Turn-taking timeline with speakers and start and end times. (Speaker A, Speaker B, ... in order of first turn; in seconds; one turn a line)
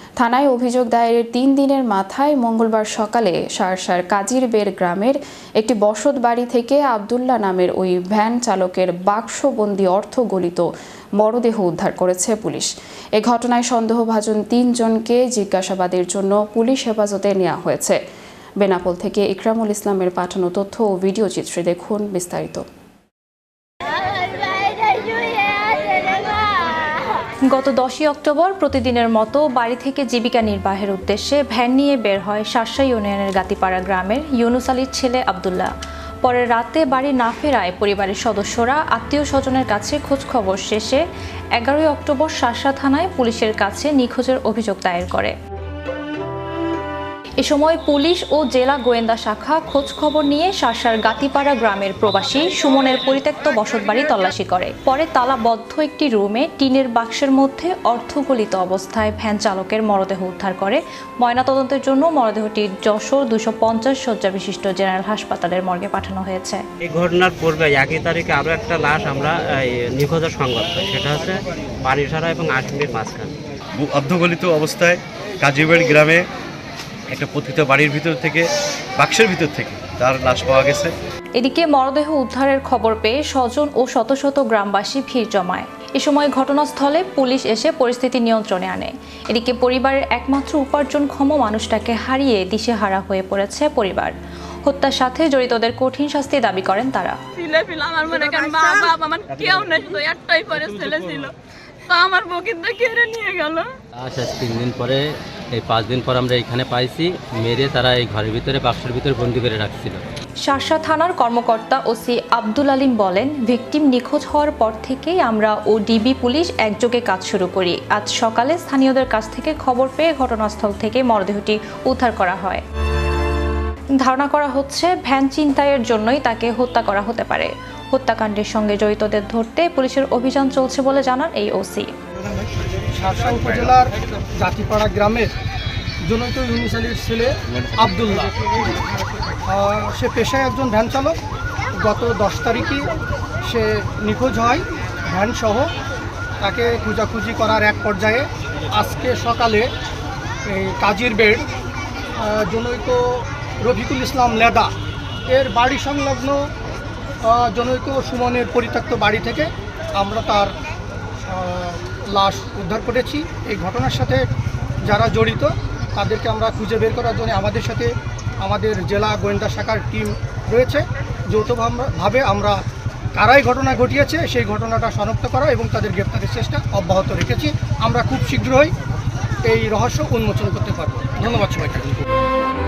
Speaker A: 0.2-10.7
Speaker A: 11.2-18.0
Speaker A: 18.6-22.6
Speaker B: 27.5-35.7
Speaker B: 36.2-41.0
Speaker B: 41.6-45.4
Speaker B: 47.4-66.7
Speaker C: 66.9-73.3
Speaker D: 73.8-76.3
Speaker D: 77.1-81.0
Speaker B: 81.4-94.1
Speaker B: 94.7-97.2
Speaker E: 97.4-101.3
Speaker E: 101.9-103.7
Speaker F: 104.0-110.0
Speaker B: 110.5-122.6
Speaker B: 124.0-131.9
Speaker G: 132.9-135.3
Speaker G: 136.1-138.3
Speaker G: 139.5-141.2
Speaker G: 141.8-142.9
Speaker G: 143.4-145.7
Speaker G: 146.4-149.7
Speaker G: 150.5-151.4
Speaker G: 152.2-154.7
Speaker G: 155.3-156.5
Speaker G: 157.2-160.5
Speaker G: 161.2-164.2
Speaker G: 164.8-172.6
Speaker G: 173.2-178.7
Speaker G: 179.4-182.0